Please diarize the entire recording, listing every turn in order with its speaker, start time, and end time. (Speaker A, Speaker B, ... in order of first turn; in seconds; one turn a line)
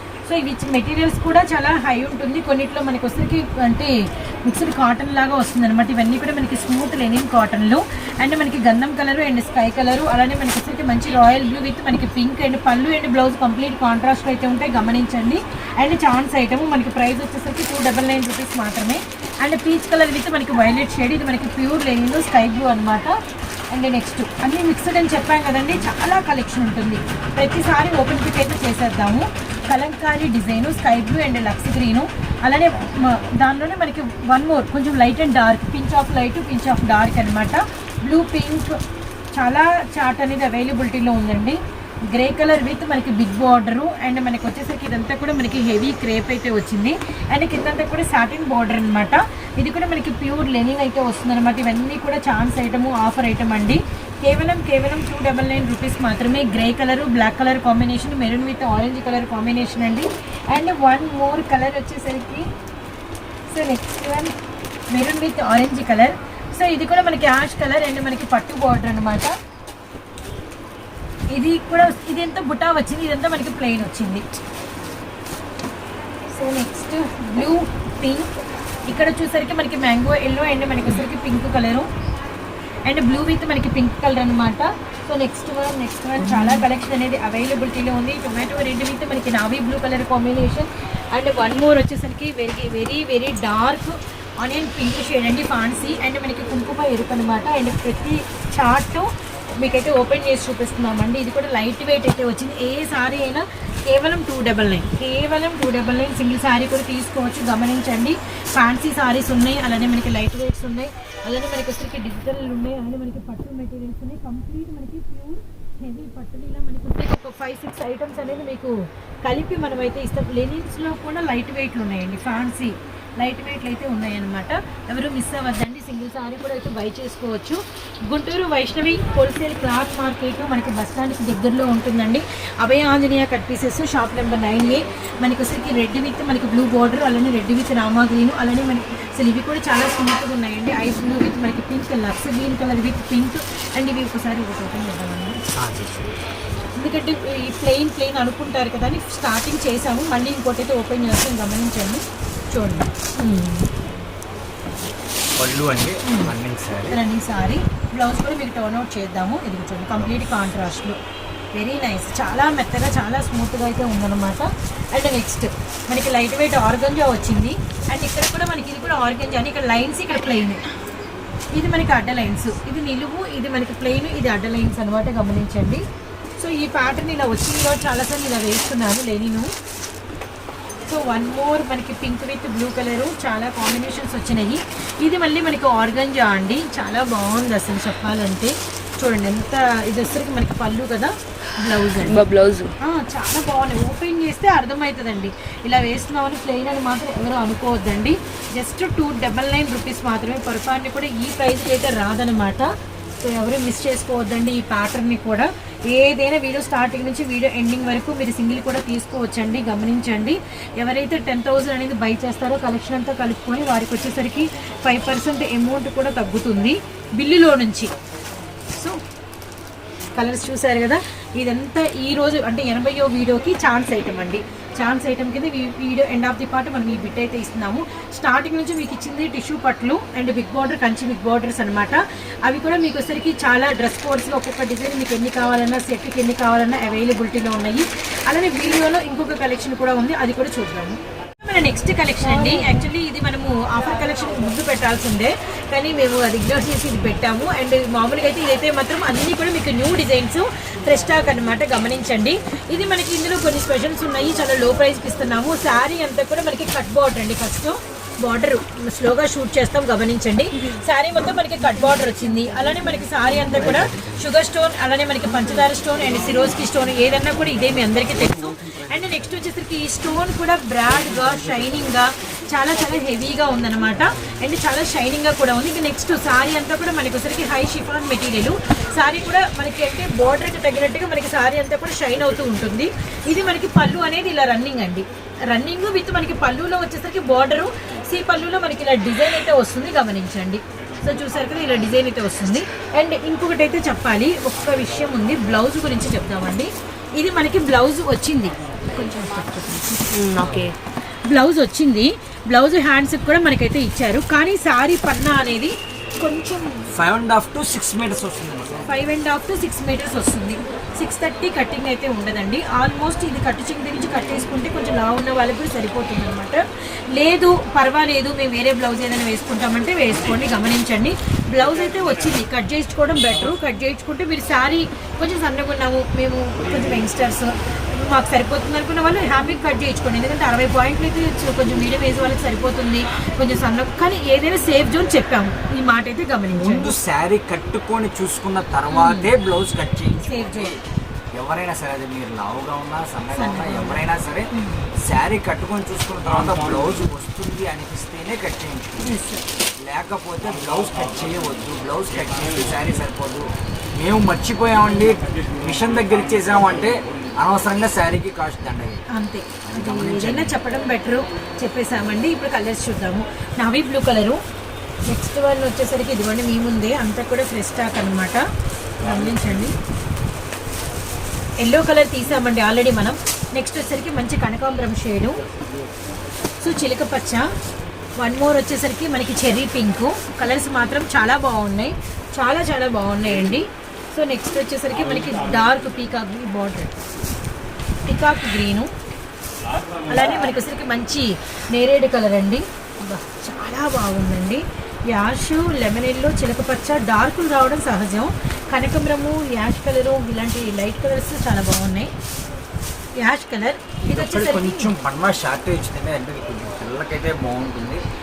Speaker A: 0.2-23.2
Speaker A: 23.7-38.8
Speaker A: 39.3-41.6
Speaker A: 42.1-62.5
Speaker A: 63.5-64.3
Speaker A: 64.9-69.3
Speaker A: 71.3-74.4
Speaker A: 76.3-78.3
Speaker A: 78.9-81.9
Speaker A: 82.8-99.1
Speaker A: 99.6-145.4
Speaker B: 145.5-146.2
Speaker A: 146.8-153.7
Speaker B: 155.4-157.0
Speaker A: 156.0-156.3
Speaker A: 156.9-161.0
Speaker A: 161.5-170.6
Speaker A: 171.5-175.8
Speaker A: 176.4-179.5
Speaker A: 180.9-192.3
Speaker C: 192.0-192.7
Speaker A: 192.8-217.9
Speaker A: 218.7-219.0
Speaker A: 220.1-298.6
Speaker C: 298.9-300.7
Speaker A: 299.1-299.4
Speaker A: 301.3-306.9
Speaker B: 306.9-308.9
Speaker A: 308.9-336.9
Speaker B: 336.5-340.8
Speaker A: 338.9-339.3
Speaker A: 340.1-340.7
Speaker B: 341.3-359.0
Speaker A: 343.3-344.9
Speaker A: 349.0-349.4
Speaker A: 359.1-364.4
Speaker B: 359.6-360.6
Speaker A: 365.1-368.4
Speaker A: 369.0-369.7
Speaker A: 371.6-375.4
Speaker A: 376.6-377.5
Speaker A: 378.2-386.9
Speaker A: 388.0-388.9
Speaker A: 390.1-402.1
Speaker A: 403.2-404.9
Speaker B: 404.1-408.0